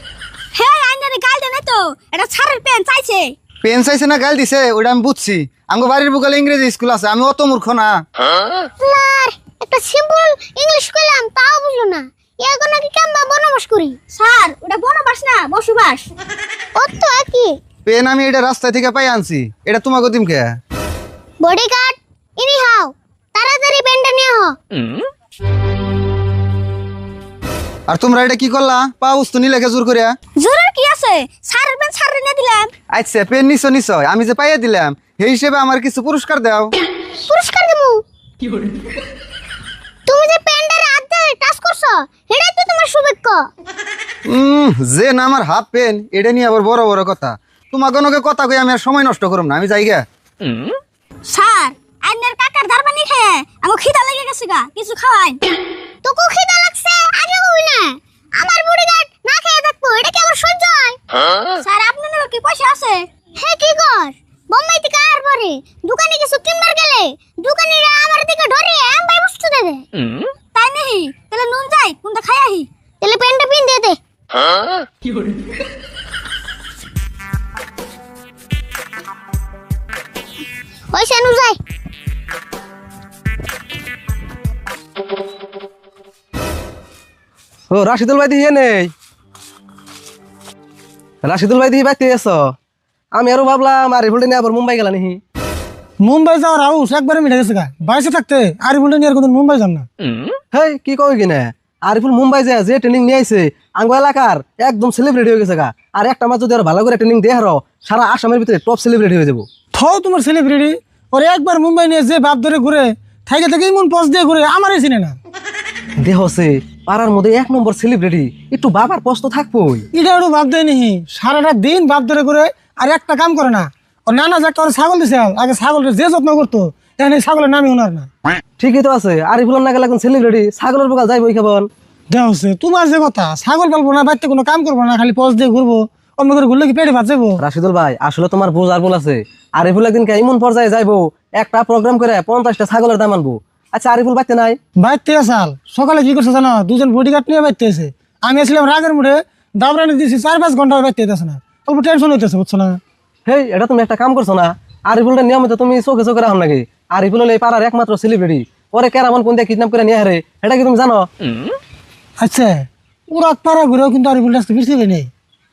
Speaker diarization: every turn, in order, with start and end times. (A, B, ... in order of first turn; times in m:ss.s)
0:00.5-0:03.4 A
0:03.6-0:08.0 B
0:08.8-0:14.0 C
0:14.1-0:16.1 A
0:16.8-0:17.5 C
0:17.8-0:20.6 B
0:21.4-0:24.6 C
0:27.9-0:30.2 B
0:30.4-0:32.7 A
0:32.9-0:36.8 B
0:37.2-0:38.0 C
0:40.1-0:43.4 C
0:44.3-0:50.1 B
0:51.3-0:55.4 A
0:56.0-1:01.0 C
1:01.6-1:03.1 A
1:03.4-1:09.8 C
1:10.6-1:12.7 A
1:13.0-1:14.0 C
1:20.9-1:21.6 C
1:27.7-1:28.9 D
1:31.2-1:32.5 D
1:33.1-1:35.2 D
1:36.0-1:39.9 E
1:40.5-1:49.5 D
1:49.7-1:55.2 E
1:56.0-1:59.9 D
1:59.9-2:08.1 E
2:08.6-2:11.7 D
2:12.1-2:17.4 E
2:17.4-2:24.6 D
2:24.8-2:32.8 E
2:33.3-2:41.1 D
2:42.2-2:45.1 E